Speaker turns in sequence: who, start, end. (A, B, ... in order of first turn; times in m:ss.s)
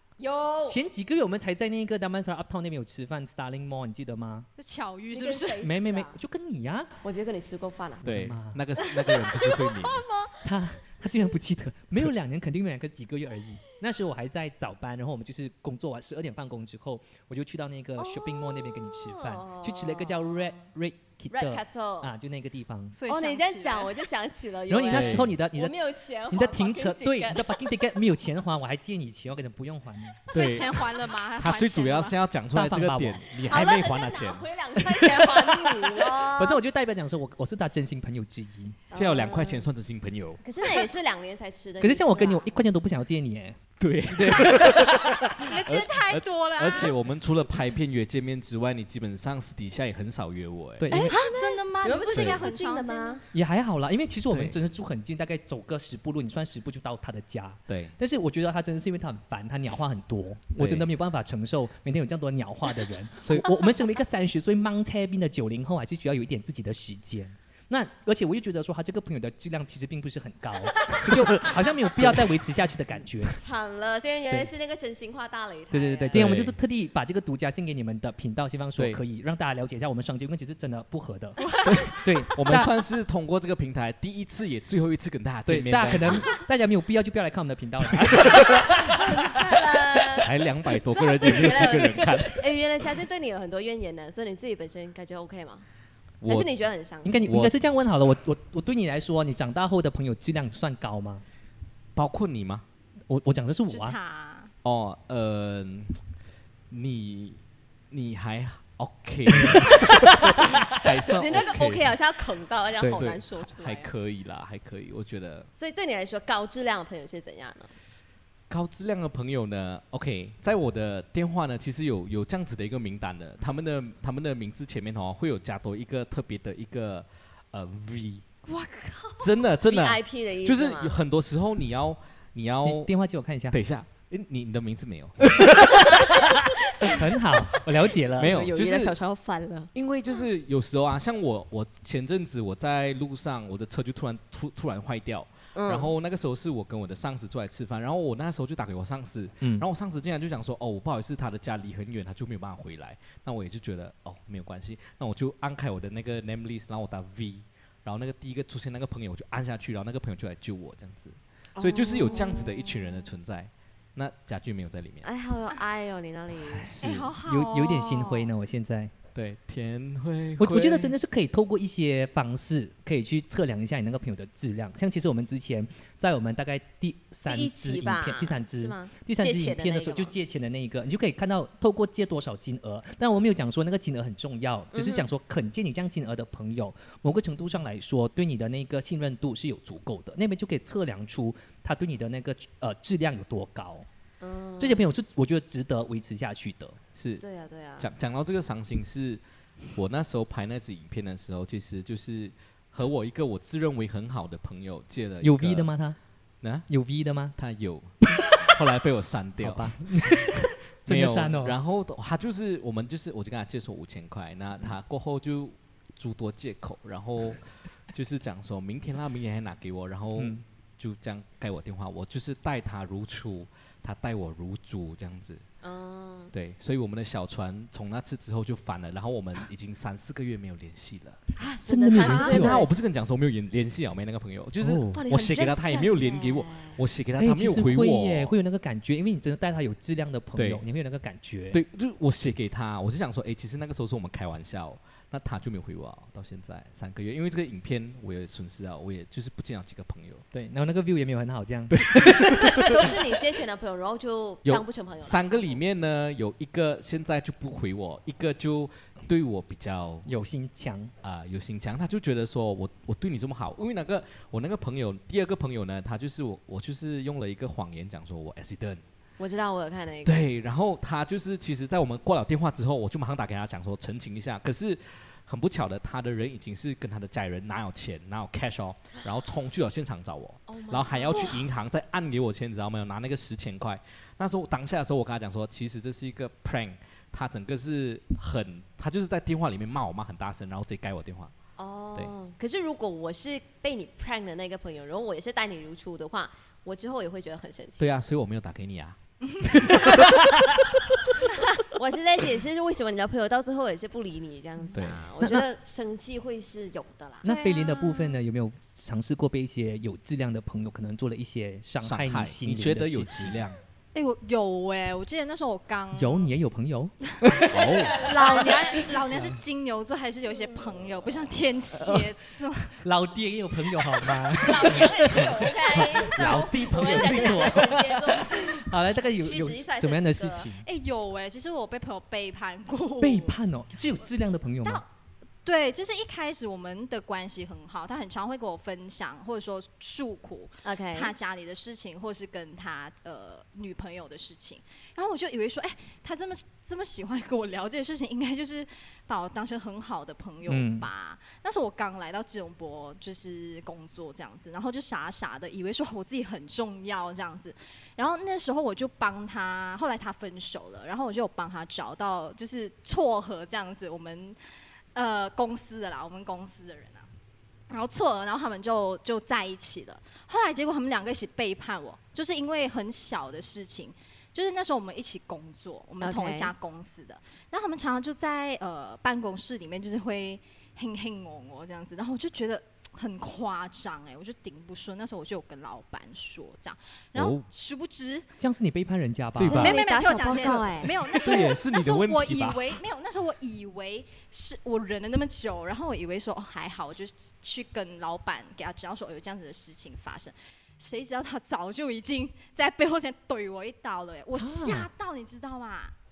0:00.2-0:00.8 A
0:00.7-0:04.5 B
0:04.6-0:05.6 C
0:05.1-0:06.2 A
0:05.6-0:06.9 B
0:07.0-0:08.0 A
0:08.0-0:08.6 B
0:08.0-0:10.0 D
0:09.1-0:10.4 A
0:10.4-0:23.0 B
0:18.0-0:20.6 A
0:21.3-0:22.1 A
0:22.9-0:23.9 C
0:23.1-0:27.8 A
0:24.7-0:25.7 B
0:24.9-0:25.3 D
0:26.3-0:30.6 B
0:30.3-0:32.2 C
0:30.3-0:34.9 D
0:32.5-0:33.3 B
0:33.4-0:36.6 A
0:36.1-0:38.8 B
0:38.9-0:39.7 A
0:38.9-0:40.4 D
0:40.4-0:42.6 A
0:41.8-0:43.6 B
0:43.8-0:51.0 D
0:44.1-0:45.4 B
0:45.4-0:46.9 C
0:50.8-0:51.2 B
0:50.9-0:53.2 C
0:51.0-0:53.2 A
0:52.1-0:52.4 D
0:53.3-1:13.4 B
0:54.3-0:54.6 D
0:57.7-0:57.9 D
1:00.6-1:00.9 D
1:13.4-1:16.2 A
1:15.7-1:22.7 B
1:16.1-1:16.6 D
1:18.8-1:19.0 D
1:21.7-1:26.3 D
1:25.5-1:29.5 B
1:28.0-1:28.6 D
1:28.4-1:35.7 A
1:30.0-1:32.5 D
1:31.4-1:32.3 B
1:36.2-1:36.5 D
1:36.3-1:37.3 A
1:37.0-1:41.2 B
1:37.3-1:37.5 D
1:42.0-1:42.6 D
1:43.1-1:44.0 B
1:43.7-1:44.5 C
1:44.6-1:46.0 D
1:46.7-1:47.4 D
1:47.9-1:51.9 D
1:49.4-1:50.8 B
1:51.1-1:53.9 A
1:52.8-1:53.1 B
1:52.9-1:55.5 D
1:55.6-1:57.7 A
1:58.5-2:08.2 D
2:08.5-2:09.3 C
2:09.2-2:12.9 D
2:09.6-2:11.0 A
2:12.6-2:13.6 B
2:13.5-2:16.2 D
2:16.0-2:17.0 A
2:16.9-2:18.5 B
2:18.2-2:19.0 D
2:18.2-2:19.7 A
2:19.7-2:45.1 D
2:25.6-2:25.9 A
2:41.6-2:42.5 A
2:45.0-2:46.8 A
2:46.5-2:48.9 B
2:46.8-2:48.3 C
2:49.2-2:50.9 D
2:50.4-3:13.9 B
2:57.3-3:00.2 A
3:04.7-3:05.1 A
3:14.2-3:14.8 A
3:14.6-3:16.8 B
3:16.9-3:17.2 D
3:17.2-3:17.9 A
3:17.8-3:19.2 D
3:19.7-3:25.7 D
3:25.2-3:26.0 B
3:26.4-3:26.7 D
3:26.7-3:27.4 B
3:27.4-3:29.7 D
3:29.4-3:31.6 B
3:30.9-3:45.4 D
3:40.2-3:40.4 B
3:45.6-3:46.3 A
3:46.3-3:51.2 D
3:51.4-3:52.8 A
3:51.7-3:52.7 B
3:52.0-3:58.4 D
3:54.6-3:55.0 B
3:54.9-3:56.8 A
3:57.2-4:01.6 B
4:00.4-4:00.6 D
4:01.5-4:10.2 D
4:10.3-4:12.8 B
4:11.7-4:12.9 D
4:12.1-4:15.6 A
4:14.5-4:20.1 D
4:20.1-4:20.9 B
4:21.0-4:28.8 D
4:29.2-4:30.2 A
4:30.0-4:51.3 D
4:40.5-4:41.4 A
4:51.6-4:57.9 A
4:57.8-5:00.2 D
4:59.4-4:59.7 C
5:01.6-5:07.3 A
5:04.7-5:05.1 D
5:07.2-5:08.2 C
5:07.2-5:13.4 B
5:11.8-5:13.6 D
5:13.9-5:16.3 C
5:15.9-5:17.6 B
5:17.2-5:22.8 C
5:17.5-5:18.1 D
5:17.7-5:18.8 A
5:19.1-5:19.4 B
5:21.7-5:22.1 B
5:22.8-5:30.7 B
5:23.8-5:24.2 C
5:24.4-5:30.5 A
5:25.7-5:27.7 C
5:30.6-5:33.3 C
5:33.0-5:34.8 B
5:35.4-6:04.4 C
5:40.6-5:41.1 A
5:50.5-5:50.9 B
6:04.9-6:07.1 C
6:07.7-6:28.3 C
6:16.0-6:16.5 A
6:27.2-6:27.5 D
6:28.4-6:29.8 B
6:29.4-6:29.8 D
6:29.4-6:31.0 A
6:29.5-6:45.9 C
6:31.1-6:32.8 D
6:44.4-6:44.9 B